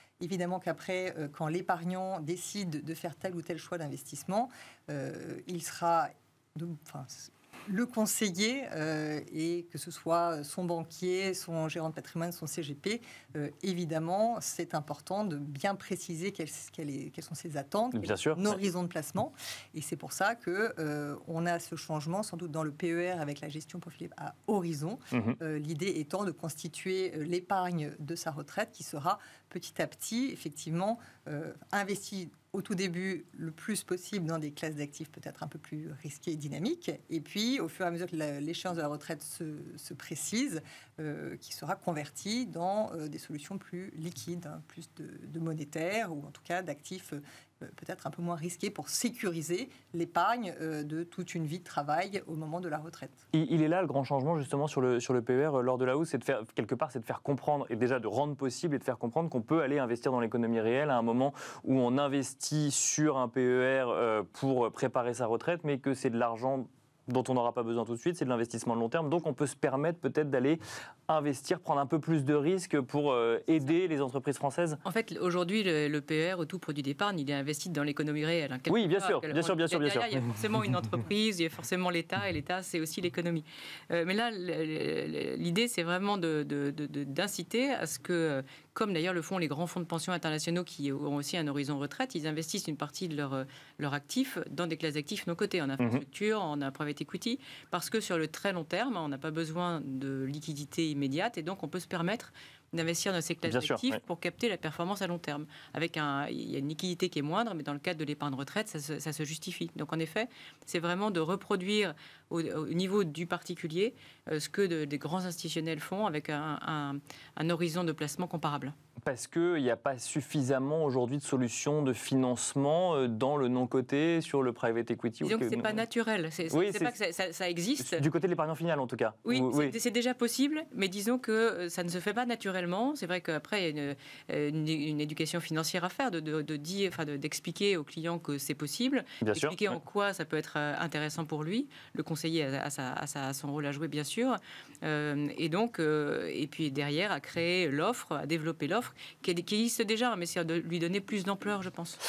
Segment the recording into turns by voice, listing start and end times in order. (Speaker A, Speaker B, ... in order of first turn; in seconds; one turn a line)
Speaker A: 0.2-53.2
Speaker B: 17.9-18.6
Speaker B: 25.1-25.4
Speaker B: 53.3-74.8
Speaker C: 74.8-118.7
Speaker B: 78.7-80.3
Speaker B: 103.5-104.0
Speaker B: 119.0-125.8
Speaker C: 125.2-128.0
Speaker B: 126.5-126.9
Speaker B: 127.8-129.8
Speaker C: 129.2-152.0
Speaker B: 139.2-139.8